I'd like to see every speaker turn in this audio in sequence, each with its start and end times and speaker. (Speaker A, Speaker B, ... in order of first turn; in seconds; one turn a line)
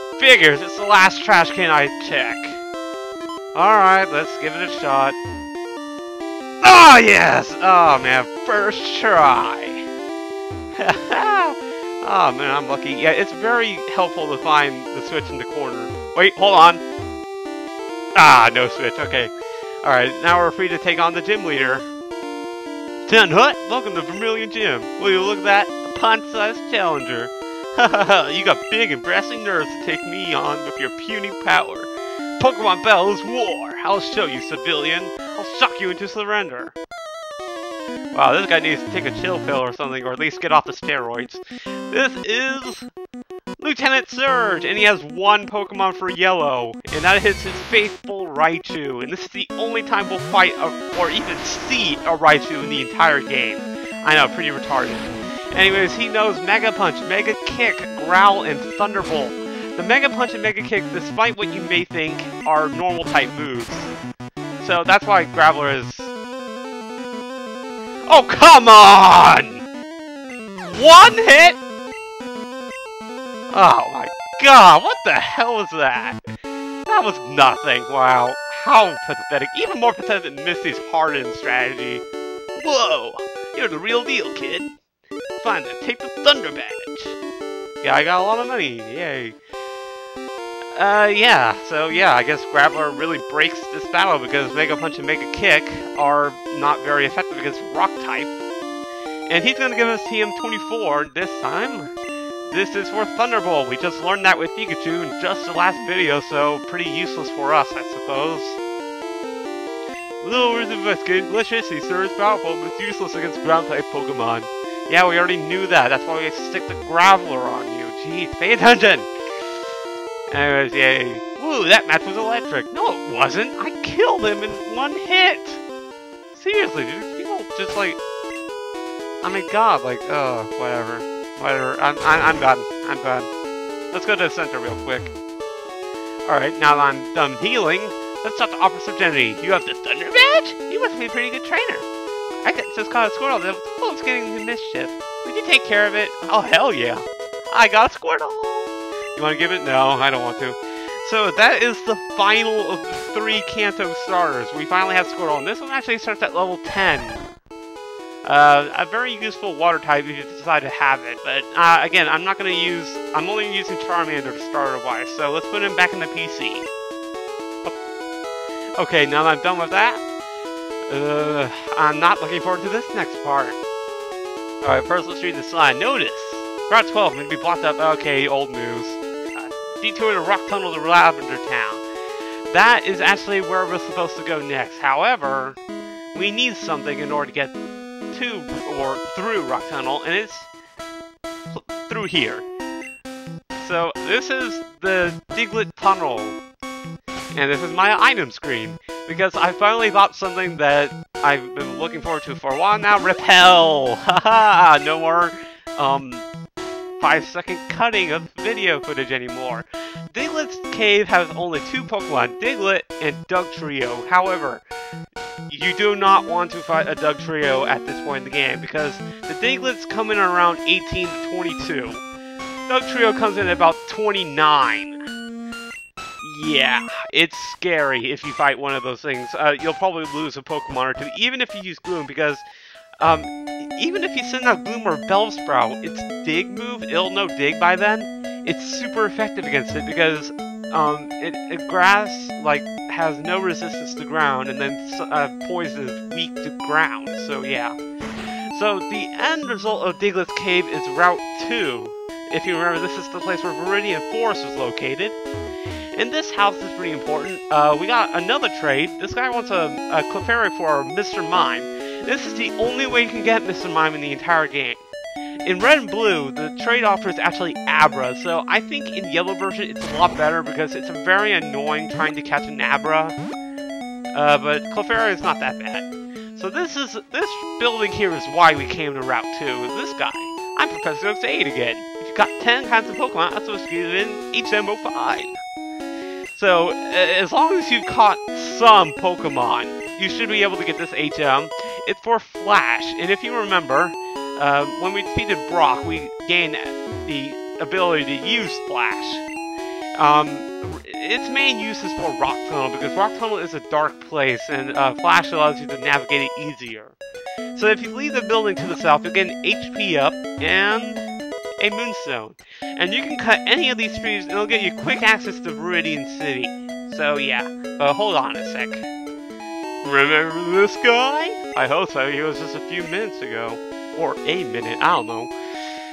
Speaker A: 0.2-2.6
Speaker A: 3.5-5.2
Speaker A: 6.6-9.8
Speaker A: 10.8-16.8
Speaker A: 18.1-19.3
Speaker A: 19.8-21.9
Speaker A: 23.1-36.8
Speaker A: 38.1-42.9
Speaker A: 43.6-63.9
Speaker A: 64.6-66.1
Speaker A: 68.1-69.6
Speaker A: 70.7-71.6
Speaker A: 73.5-76.2
Speaker A: 76.8-82.0
Speaker A: 82.5-84.7
Speaker A: 85.4-87.2
Speaker A: 87.8-89.3
Speaker A: 90.7-98.3
Speaker A: 99.3-101.9
Speaker A: 102.5-108.6
Speaker A: 110.2-119.1
Speaker A: 120.3-125.6
Speaker A: 126.3-128.0
Speaker A: 129.2-133.3
Speaker A: 133.9-135.1
Speaker A: 136.2-141.9
Speaker A: 142.4-157.2
Speaker A: 158.2-166.7
Speaker A: 168.8-170.0
Speaker A: 170.9-173.6
Speaker A: 174.6-181.8
Speaker A: 182.5-185.6
Speaker A: 186.1-187.5
Speaker A: 188.1-190.5
Speaker A: 191.5-192.4
Speaker A: 193.6-196.4
Speaker A: 197.3-206.2
Speaker A: 207.0-214.6
Speaker A: 215.5-222.0
Speaker A: 222.7-225.0
Speaker A: 226.2-232.4
Speaker A: 233.0-247.8
Speaker A: 248.5-255.2
Speaker A: 255.9-264.8
Speaker A: 265.4-273.1
Speaker A: 274.1-285.4
Speaker A: 286.3-299.2
Speaker A: 300.0-306.9
Speaker A: 307.5-311.1
Speaker A: 311.6-318.9
Speaker A: 319.8-325.3